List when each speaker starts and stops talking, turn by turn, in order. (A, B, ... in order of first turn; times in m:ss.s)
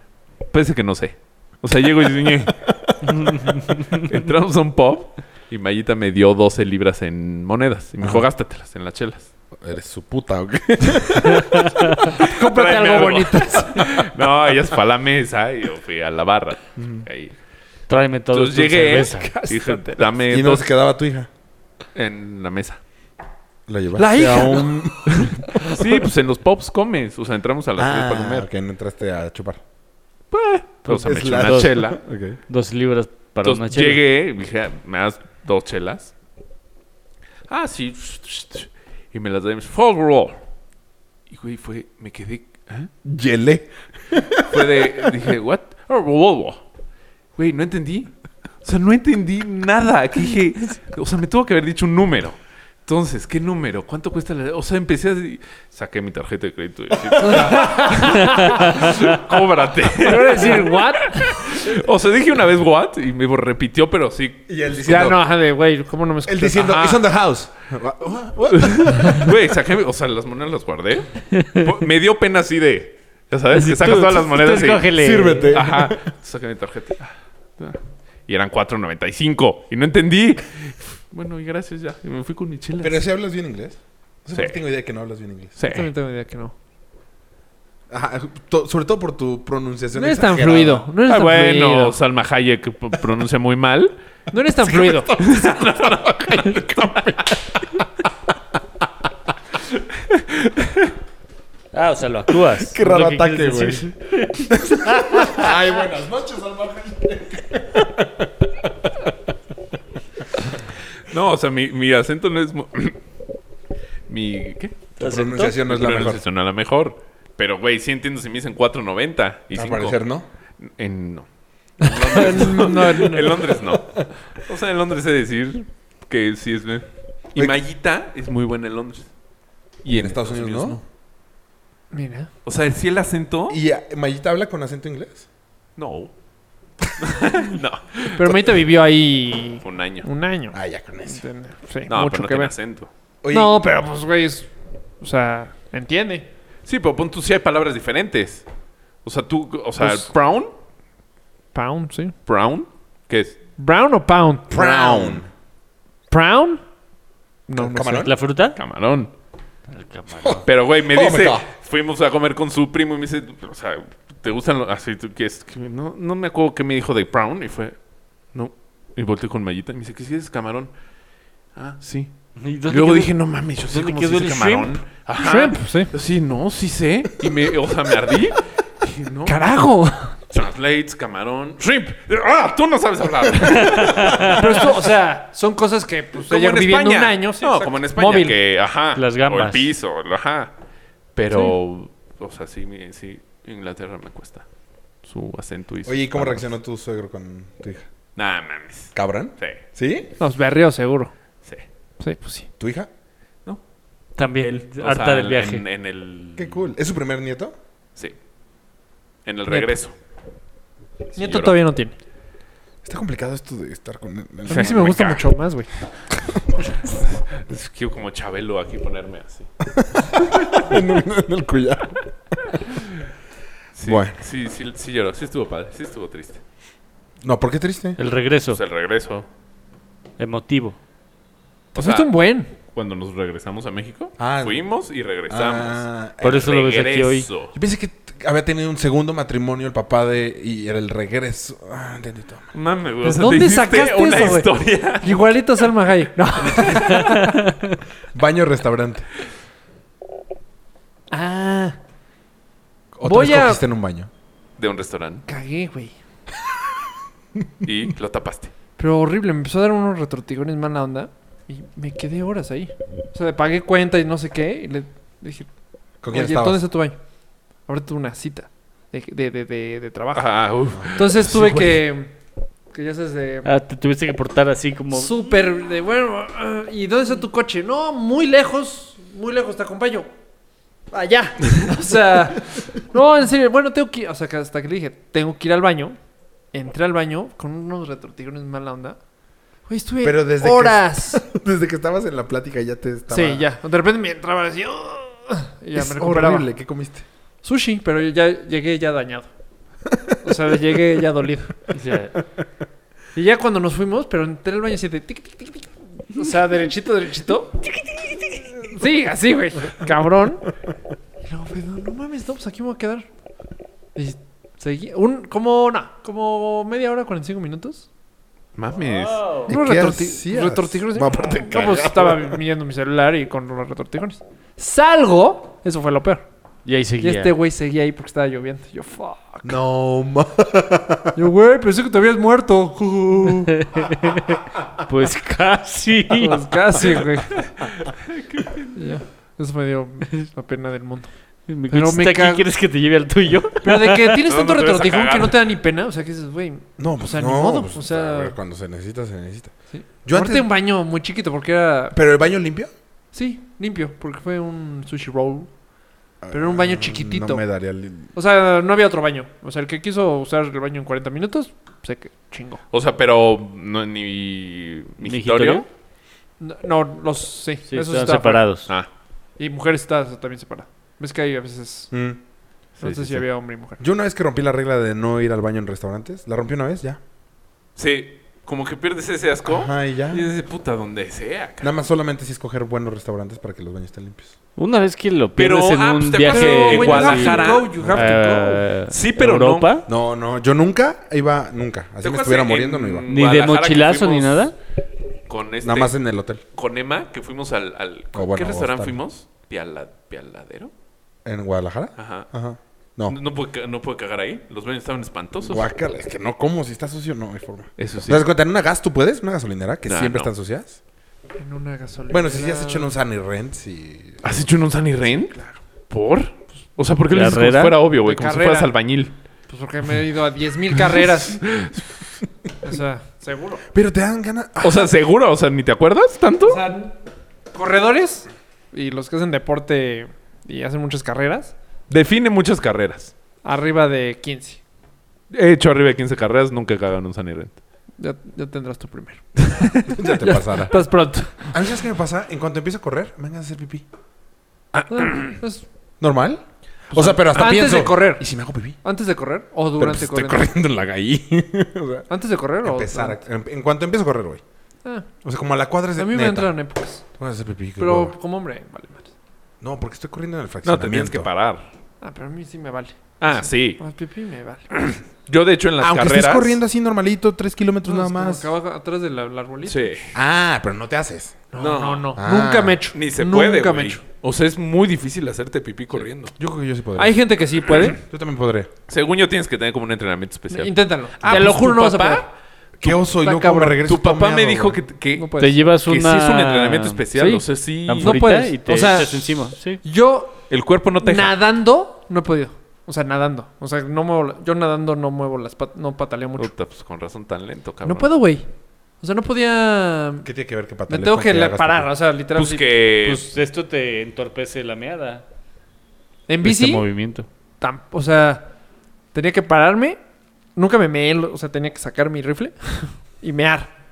0:00.5-0:02.6 A
0:03.0-0:04.1 B
0:04.0-0:09.3 A
0:09.6-0:11.8 C
0:12.0-0:13.9 D
0:12.3-0:17.3 A
0:16.8-0:17.0 C
0:17.9-0:19.3 B
0:18.3-0:20.7 A
0:19.1-0:20.1 D
0:20.3-0:21.3 C
0:21.9-0:22.8 A
0:23.7-0:25.5 C
0:24.0-0:25.9 D
0:25.1-0:28.5 A
0:27.8-0:29.6 C
0:30.3-0:32.0 A
0:30.8-0:31.8 B
0:30.9-0:32.4 C
0:32.5-0:34.0 B
0:33.4-0:36.1 A
0:37.5-0:40.4 A
0:41.3-0:42.9 A
0:43.0-0:45.1 C
0:44.4-0:46.6 A
0:47.4-0:48.1 A
0:48.6-1:04.4 A
0:57.1-0:57.7 C
0:57.2-0:59.0 D
1:00.0-1:01.6 D
1:04.5-1:05.2 C
1:04.8-1:06.7 D
1:06.2-1:09.4 C
1:06.5-1:07.0 A
1:08.5-1:14.9 A
1:11.4-1:11.6 B
1:13.5-1:15.6 B
1:14.9-1:16.0 C
1:15.5-1:23.0 A
1:22.8-1:25.6 C
1:25.6-1:25.9 A
1:25.7-1:26.5 D
1:27.9-1:30.8 C
1:29.9-1:32.0 D
1:31.0-1:33.9 A
1:34.3-1:35.2 D
1:34.9-1:37.2 C
1:35.1-1:37.4 A
1:40.0-1:40.9 A
1:41.7-1:45.5 B
1:42.6-1:43.9 C
1:44.4-1:48.3 C
1:51.1-1:53.0 A
1:54.1-2:00.0 A
1:55.0-1:55.6 B
1:55.0-1:56.2 C
1:59.5-2:00.2 C
2:00.6-2:01.3 A
2:01.8-2:09.1 A
2:01.8-2:03.6 D
2:03.7-2:04.0 C
2:09.8-2:10.8 A
2:09.9-2:10.8 C
2:11.9-2:12.3 D
2:12.4-2:13.6 A
2:13.5-2:15.2 C
2:15.8-2:16.1 A
2:17.0-2:18.3 A
2:18.1-2:22.5 D
2:19.6-2:20.1 A
2:20.5-2:21.2 C
2:21.9-2:22.9 A
2:23.2-2:23.6 C
2:23.3-2:24.5 D
2:25.0-2:26.2 D
2:26.6-2:28.4 A
2:29.0-2:30.5 A
2:31.5-2:32.1 D
2:32.3-2:33.4 A
2:33.6-2:35.2 D
2:34.5-2:35.3 C
2:36.1-2:36.6 D
2:37.5-2:38.1 D
2:37.5-2:38.1 C
2:38.0-2:38.6 B
2:38.6-2:39.1 A
2:39.7-2:40.4 B
2:40.2-2:41.4 C
2:40.4-2:47.7 A
2:48.3-2:50.7 A
2:51.5-2:52.1 A
2:52.4-2:53.2 B
2:52.7-2:59.4 A
2:53.7-2:54.8 B
2:55.2-2:55.9 D
2:59.2-3:00.2 D
3:00.3-3:04.7 A
3:03.6-3:04.4 B
3:04.3-3:08.4 D
3:06.2-3:10.5 A
3:08.9-3:09.7 B
3:11.1-3:14.4 A
3:15.0-3:16.4 A
3:15.8-3:17.8 C
3:18.2-3:19.6 A
3:18.9-3:20.1 C
3:20.2-3:21.1 D
3:22.0-3:22.5 D
3:22.6-3:22.9 C
3:24.2-3:25.6 B
3:24.8-3:26.6 A
3:26.4-3:27.5 C
3:29.2-3:29.9 A
3:29.5-3:29.7 D
3:31.1-3:31.6 A
3:31.1-3:31.9 D
3:32.8-3:35.0 C
3:34.5-3:35.7 D
3:34.5-3:35.2 A
3:36.9-3:39.5 A
3:39.7-3:42.6 C
3:43.7-3:46.4 A
3:43.8-3:44.2 C
3:47.2-3:48.0 C
3:48.0-3:48.6 B
3:48.5-3:49.2 A
3:50.2-3:50.8 B
3:51.7-3:52.1 A
3:51.8-3:52.5 D
3:52.7-3:57.5 A
3:54.2-3:54.6 C
3:55.3-3:56.5 C
3:56.2-3:57.3 B
3:57.5-4:02.4 C
4:02.5-4:05.2 A
4:03.0-4:07.4 D
4:08.1-4:09.1 C
4:11.1-4:11.8 D
4:12.9-4:14.1 C
4:13.0-4:13.6 D
4:14.6-4:15.2 A
4:15.3-4:15.9 D
4:17.6-4:18.5 A
4:18.8-4:25.5 D
4:26.0-4:26.6 C
4:26.1-4:27.0 D
4:27.7-4:30.3 D
4:30.1-4:31.8 A
4:30.9-4:32.1 D
4:32.7-4:33.5 D
4:33.4-4:35.3 B
4:34.9-4:40.1 D
4:40.9-4:46.0 D
4:46.5-4:49.0 D
4:49.7-4:51.2 D
4:50.0-4:53.4 C
4:53.1-4:56.5 D
4:55.7-4:57.0 C
4:57.4-4:59.3 D
5:00.2-5:01.6 D
5:01.7-5:02.1 B
5:03.1-5:07.6 D
5:08.6-5:10.5 D
5:11.2-5:13.1 D
5:13.9-5:17.8 D
5:18.6-5:19.2 A
5:18.9-5:19.5 B
5:19.5-5:22.3 C
5:19.5-5:26.2 D
5:26.6-5:27.3 B
5:27.0-5:29.6 D
5:29.4-5:31.1 C
5:31.1-5:33.6 D
5:33.6-5:36.4 B
5:36.2-5:37.4 D
5:38.1-5:38.7 A
5:38.7-5:41.1 D
5:41.5-5:44.3 B
5:41.7-5:42.4 D
5:43.6-5:48.4 D
5:44.3-5:45.4 A
5:46.8-5:49.5 C
5:49.7-5:52.0 D
5:50.0-5:50.5 C
5:51.9-5:52.7 C
5:53.1-5:55.5 D
5:56.2-5:58.1 C
5:56.3-5:57.4 D
5:58.1-6:02.6 D
6:02.7-6:05.6 A
6:05.0-6:05.7 B
6:06.4-6:08.5 D
6:07.7-6:08.7 B
6:09.4-6:11.9 D
6:11.9-6:12.2 C
6:12.8-6:13.2 A
6:12.8-6:13.8 D
6:13.8-6:17.0 C
6:17.8-6:21.7 A
6:19.4-6:20.2 C
6:21.6-6:24.4 C
6:24.6-6:29.8 B
6:25.4-6:27.9 A
6:26.2-6:28.6 D
6:28.9-6:29.7 A
6:29.9-6:33.1 C
6:32.0-6:34.5 A
6:33.1-6:34.5 B
6:35.3-6:36.0 A
6:35.6-6:36.4 C
6:36.5-6:40.7 A
6:38.1-6:39.0 C
6:41.2-6:43.2 C
6:42.0-6:42.3 A
6:43.0-6:45.6 A
6:45.4-6:50.8 C
6:47.8-6:48.2 A
6:49.8-6:50.3 A
6:51.4-6:52.9 D
6:52.1-6:54.4 C
6:54.2-6:55.4 A
6:55.9-6:59.1 A
6:57.1-6:57.8 B
6:58.0-6:58.7 D
6:59.5-7:01.4 D
7:01.4-7:01.8 A
7:02.6-7:03.6 D
7:03.7-7:04.9 C
7:04.6-7:06.6 A
7:06.4-7:06.9 D
7:07.5-7:11.5 D
7:11.9-7:13.1 A
7:13.4-7:14.6 D
7:15.3-7:17.6 A
7:18.0-7:21.5 D
7:19.9-7:20.8 C
7:21.3-7:23.8 C
7:24.7-7:25.3 A
7:24.9-7:25.6 D
7:26.0-7:28.8 C
7:26.9-7:28.2 D
7:28.8-7:30.5 D
7:29.8-7:32.1 C
7:32.1-7:33.2 D
7:32.6-7:34.4 C
7:35.2-7:36.5 C
7:36.0-7:37.0 D
7:37.2-7:38.2 C
7:37.8-7:39.1 D
7:39.6-7:41.3 C
7:40.6-7:41.7 A
7:42.0-7:44.7 D
7:43.2-7:43.8 A
7:44.7-7:46.6 A
7:45.8-7:48.4 C
7:47.8-7:50.0 D
7:49.6-7:50.1 A
7:50.1-7:51.4 C
7:51.5-7:54.0 D
7:51.6-7:52.1 A
7:52.2-7:52.8 C
7:52.9-7:56.3 A
7:56.4-7:57.2 C
7:57.0-7:58.0 D
7:58.0-7:58.7 C
7:58.9-8:02.3 A
8:00.5-8:02.3 D
8:02.8-8:04.8 C
8:02.8-8:03.8 D
8:03.8-8:08.2 A
8:05.1-8:05.6 D
8:05.4-8:07.0 B
8:07.1-8:07.4 D
8:07.8-8:09.8 B
8:08.0-8:10.4 D
8:10.5-8:11.3 A
8:11.0-8:16.5 D
8:16.4-8:18.1 A
8:17.8-8:18.5 D
8:19.0-8:20.3 D
8:20.2-8:21.9 C
8:20.9-8:22.8 D
8:22.3-8:23.3 A
8:23.0-8:25.2 B
8:26.3-8:26.9 D
8:26.4-8:27.3 B
8:27.6-8:28.5 D
8:29.1-8:30.0 D
8:30.5-8:33.7 D